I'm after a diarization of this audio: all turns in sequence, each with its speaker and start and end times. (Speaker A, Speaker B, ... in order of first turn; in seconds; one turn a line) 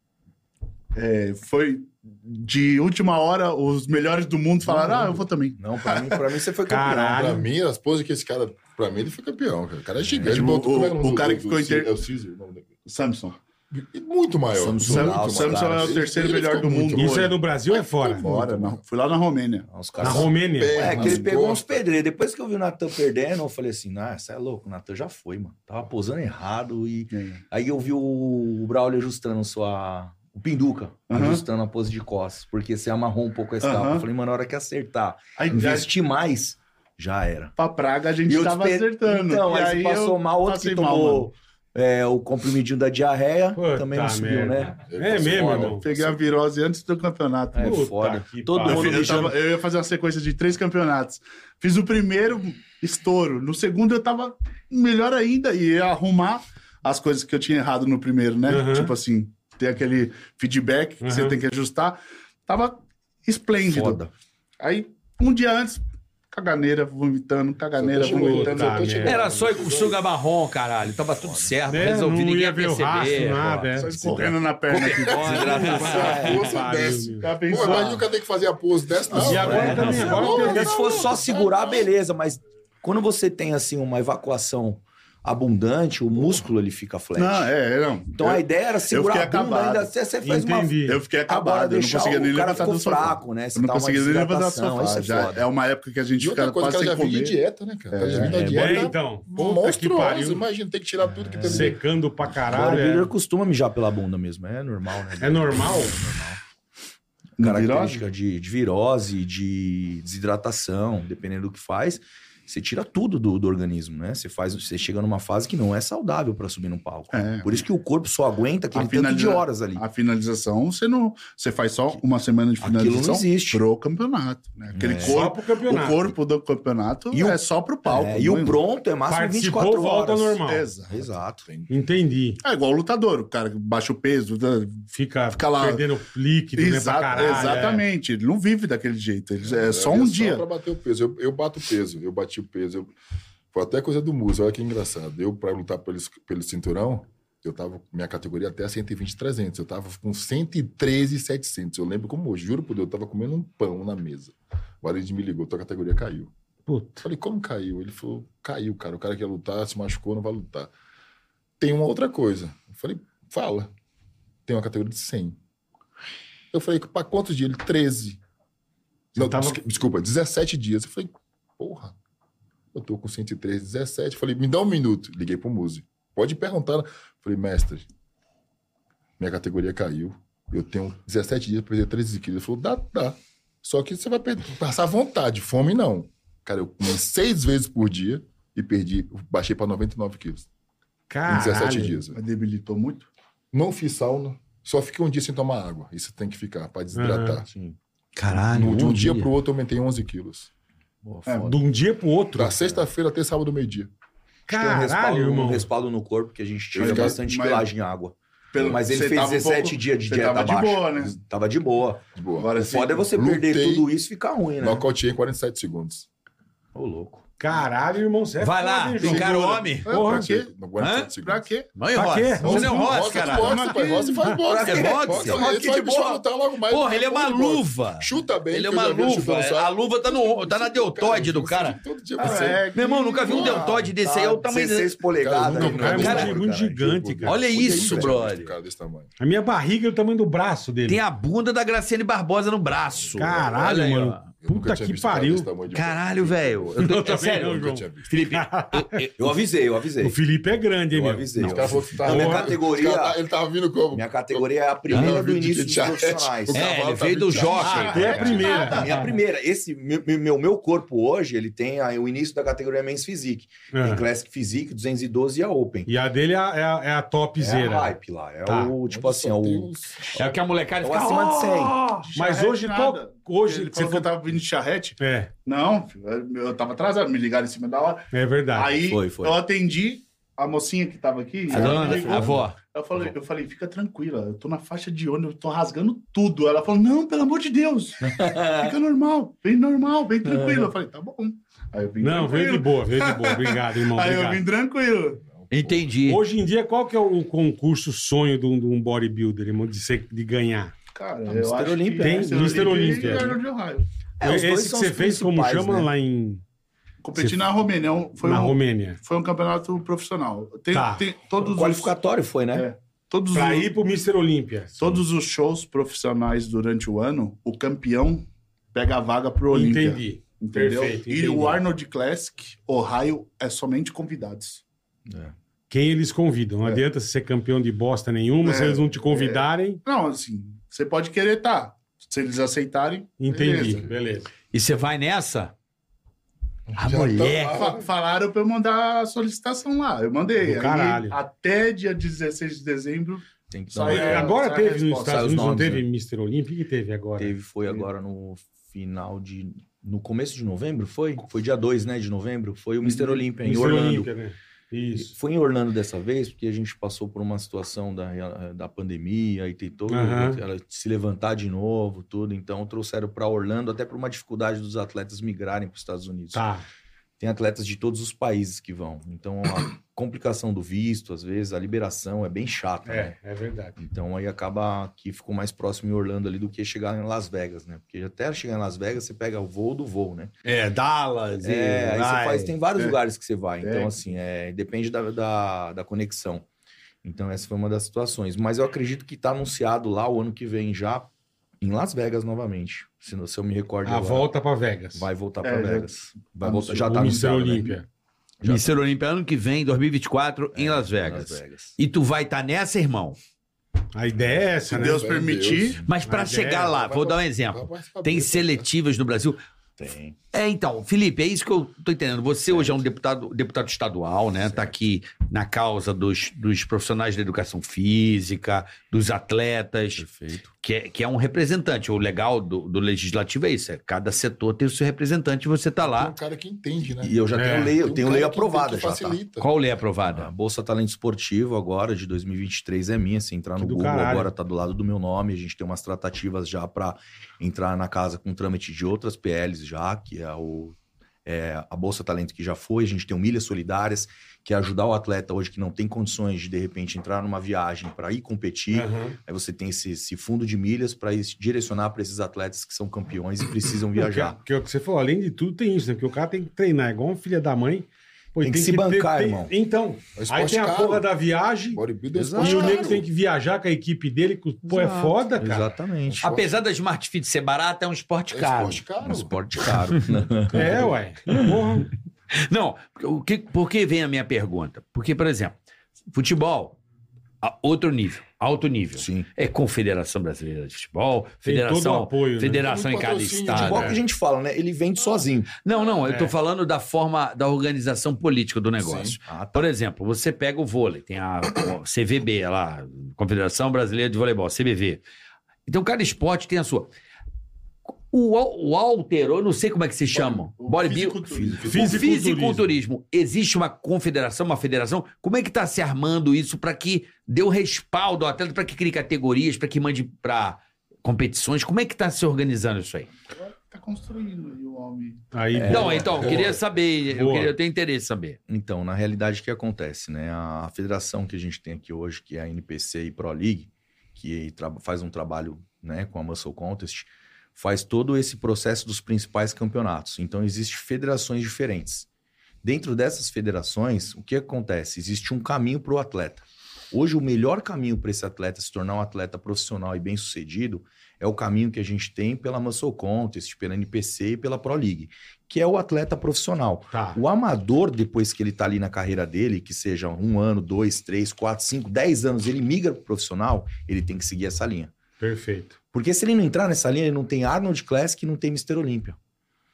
Speaker A: 0.9-6.2
Speaker B: 5.5-7.4
Speaker C: 6.7-7.5
Speaker D: 7.1-12.7
Speaker A: 10.2-11.9
Speaker A: 12.8-13.4
Speaker D: 13.7-18.8
Speaker B: 14.5-16.0
Speaker A: 14.8-17.4
Speaker C: 16.9-18.3
Speaker A: 18.2-19.6
Speaker B: 19.6-37.5
Speaker D: 20.0-21.8
Speaker C: 20.0-20.9
Speaker A: 20.8-21.2
Speaker A: 27.1-27.4
Speaker A: 31.1-31.4
Speaker A: 33.6-34.1
Speaker A: 35.4-35.9
Speaker A: 37.6-41.3
Speaker B: 38.3-44.8
Speaker C: 43.5-45.8
Speaker D: 44.9-46.2
Speaker A: 45.5-47.9
Speaker B: 47.5-49.4
Speaker C: 47.6-49.3
Speaker A: 48.6-64.1
Speaker C: 58.5-58.9
Speaker C: 61.0-61.4
Speaker B: 63.6-64.1
Speaker A: 64.6-69.1
Speaker D: 67.8-70.0
Speaker C: 68.0-69.3
Speaker E: 69.0-74.0
Speaker B: 71.2-71.5
Speaker C: 71.7-74.0
Speaker D: 73.8-81.9
Speaker A: 73.8-76.0
Speaker E: 74.7-76.5
Speaker B: 75.1-76.5
Speaker C: 76.0-77.8
Speaker A: 77.2-78.1
Speaker B: 79.1-87.5
Speaker C: 79.1-80.8
Speaker A: 87.2-89.9
Speaker B: 88.1-95.4
Speaker C: 90.2-91.0
Speaker A: 90.8-97.4
Speaker D: 96.2-101.8
Speaker A: 97.9-98.6
Speaker B: 98.2-98.8
Speaker C: 98.3-100.4
Speaker B: 101.0-101.8
Speaker C: 101.4-103.1
Speaker B: 102.5-106.4
Speaker C: 105.2-106.0
Speaker A: 107.4-108.0
Speaker B: 107.4-119.8
Speaker A: 117.1-117.6
Speaker A: 118.7-128.6
Speaker B: 122.6-123.6
Speaker B: 124.7-125.2
Speaker C: 125.0-126.1
Speaker B: 127.1-131.5
Speaker C: 129.1-130.7
Speaker A: 130.4-131.1
Speaker D: 131.4-131.7
Speaker C: 131.7-132.4
Speaker A: 132.4-135.9
Speaker C: 134.9-137.8
Speaker A: 136.5-140.4
Speaker D: 139.4-142.9
Speaker D: 143.5-156.3
Speaker C: 156.7-157.0
Speaker D: 157.0-160.7
Speaker D: 161.6-163.7
Speaker D: 164.5-165.4
Speaker D: 166.5-168.2
Speaker D: 169.1-171.9
Speaker C: 169.2-169.6
Speaker D: 172.7-177.8
Speaker D: 179.2-190.5
Speaker C: 191.1-192.0
Speaker D: 191.3-192.2
Speaker A: 192.1-193.1
Speaker D: 193.5-197.5
Speaker C: 196.9-197.4
Speaker E: 198.2-199.3
Speaker D: 198.4-200.5
Speaker B: 201.0-201.5
Speaker A: 201.2-201.6
Speaker C: 201.3-202.7
Speaker D: 202.3-203.9
Speaker C: 204.5-205.7
Speaker B: 204.5-212.0
Speaker D: 206.8-207.2
Speaker A: 206.8-207.7
Speaker A: 208.5-211.2
Speaker D: 212.2-212.5
Speaker A: 212.4-213.1
Speaker B: 212.6-214.8
Speaker D: 213.1-213.9
Speaker D: 214.6-216.1
Speaker B: 216.7-217.2
Speaker C: 217.4-220.3
Speaker E: 218.4-219.9
Speaker D: 219.0-221.5
Speaker A: 219.2-220.5
Speaker E: 220.8-221.1
Speaker A: 221.2-221.7
Speaker E: 221.8-223.8
Speaker C: 221.9-222.9
Speaker D: 222.4-232.7
Speaker A: 222.5-224.4
Speaker B: 224.4-226.2
Speaker E: 224.6-225.4
Speaker E: 226.7-235.0
Speaker A: 232.2-233.8
Speaker D: 233.2-233.8
Speaker B: 233.3-236.9
Speaker D: 235.2-239.1
Speaker C: 235.6-237.7
Speaker E: 235.6-236.4
Speaker E: 237.2-238.5
Speaker B: 237.7-238.1
Speaker C: 239.2-241.0
Speaker E: 240.8-244.2
Speaker D: 242.9-243.5
Speaker C: 243.2-245.5
Speaker D: 244.4-248.1
Speaker E: 245.7-249.1
Speaker C: 246.8-249.1
Speaker B: 249.2-250.2
Speaker C: 250.0-252.5
Speaker B: 250.9-253.2
Speaker D: 251.4-258.7
Speaker B: 253.9-256.7
Speaker E: 254.9-255.2
Speaker E: 256.5-258.6
Speaker C: 257.6-259.1
Speaker A: 257.6-259.0
Speaker B: 258.4-265.9
Speaker C: 263.7-264.0
Speaker C: 265.9-267.9
Speaker B: 267.4-269.7
Speaker C: 268.5-268.7
Speaker D: 268.9-270.4
Speaker E: 270.1-272.0
Speaker B: 270.8-271.8
Speaker C: 272.0-274.1
Speaker A: 272.0-295.2
Speaker C: 275.0-275.3
Speaker C: 278.1-278.8
Speaker B: 278.8-279.4
Speaker E: 281.5-282.6
Speaker B: 281.5-282.4
Speaker B: 288.0-288.7
Speaker B: 290.2-290.7
Speaker C: 292.0-294.4
Speaker D: 295.2-296.0
Speaker E: 295.5-296.2
Speaker C: 296.1-300.7
Speaker A: 300.9-303.8
Speaker B: 301.3-303.4
Speaker C: 302.0-303.4
Speaker B: 304.2-305.9
Speaker C: 304.2-306.4
Speaker A: 307.0-311.9
Speaker C: 307.1-307.5
Speaker C: 308.2-309.0
Speaker C: 310.7-311.0
Speaker B: 311.4-312.7
Speaker A: 312.5-313.7
Speaker C: 313.3-314.8
Speaker A: 314.8-324.6
Speaker C: 319.5-321.6
Speaker C: 325.7-329.8
Speaker A: 328.4-333.9
Speaker C: 333.2-334.3
Speaker D: 333.6-333.9
Speaker E: 334.5-335.5
Speaker D: 336.7-337.9
Speaker E: 336.8-337.6
Speaker A: 337.4-345.4
Speaker C: 340.4-341.1
Speaker B: 343.5-344.4
Speaker C: 343.9-347.3
Speaker B: 345.0-345.8
Speaker B: 347.2-354.1
Speaker A: 352.8-353.2
Speaker C: 353.4-355.1
Speaker B: 354.9-366.4
Speaker C: 359.9-360.4
Speaker C: 366.3-366.6
Speaker B: 367.2-373.1
Speaker C: 372.9-373.8
Speaker B: 373.8-380.3
Speaker E: 380.4-382.3
Speaker B: 381.4-386.4
Speaker A: 382.7-383.0
Speaker A: 383.6-384.0
Speaker B: 387.0-391.1
Speaker B: 391.6-394.3
Speaker C: 393.8-395.1
Speaker B: 394.9-397.7
Speaker A: 395.4-397.7
Speaker C: 396.8-397.8
Speaker E: 398.4-403.2
Speaker B: 400.5-401.7
Speaker C: 403.9-405.1
Speaker D: 404.7-405.9
Speaker A: 404.7-405.9
Speaker E: 405.8-409.4
Speaker C: 406.1-406.8
Speaker D: 406.7-408.7
Speaker B: 409.8-410.1
Speaker E: 410.3-420.1
Speaker B: 412.5-412.8
Speaker B: 420.0-420.5
Speaker E: 420.6-426.1
Speaker D: 425.8-429.5
Speaker B: 427.0-429.2
Speaker C: 427.4-427.8
Speaker E: 429.4-430.3
Speaker B: 430.1-454.4
Speaker C: 433.6-434.3
Speaker C: 448.7-449.1
Speaker C: 453.9-461.8
Speaker B: 458.4-459.5
Speaker D: 460.1-461.1
Speaker D: 461.7-463.1
Speaker B: 462.1-462.9
Speaker C: 462.4-465.7
Speaker B: 464.7-466.2
Speaker D: 466.0-466.6
Speaker E: 466.2-468.8
Speaker D: 468.3-469.4
Speaker B: 469.0-470.9
Speaker C: 470.5-471.9
Speaker E: 472.3-475.5
Speaker E: 476.1-476.8
Speaker E: 477.4-483.9
Speaker B: 478.9-479.3
Speaker C: 481.4-482.7
Speaker D: 482.6-484.0
Speaker B: 483.5-485.5
Speaker C: 483.7-484.0
Speaker E: 485.6-495.0
Speaker C: 486.1-486.3
Speaker D: 488.8-489.2
Speaker B: 489.2-489.7
Speaker E: 495.7-496.9
Speaker E: 498.1-513.1
Speaker A: 500.1-502.0
Speaker C: 501.6-502.7
Speaker A: 513.3-515.2
Speaker C: 515.3-516.4
Speaker B: 515.5-516.6
Speaker E: 515.6-518.4
Speaker D: 516.2-516.4
Speaker C: 517.1-517.5
Speaker B: 518.5-532.1
Speaker B: 532.6-554.9
Speaker C: 546.9-547.2
Speaker C: 555.2-555.8
Speaker B: 555.9-559.2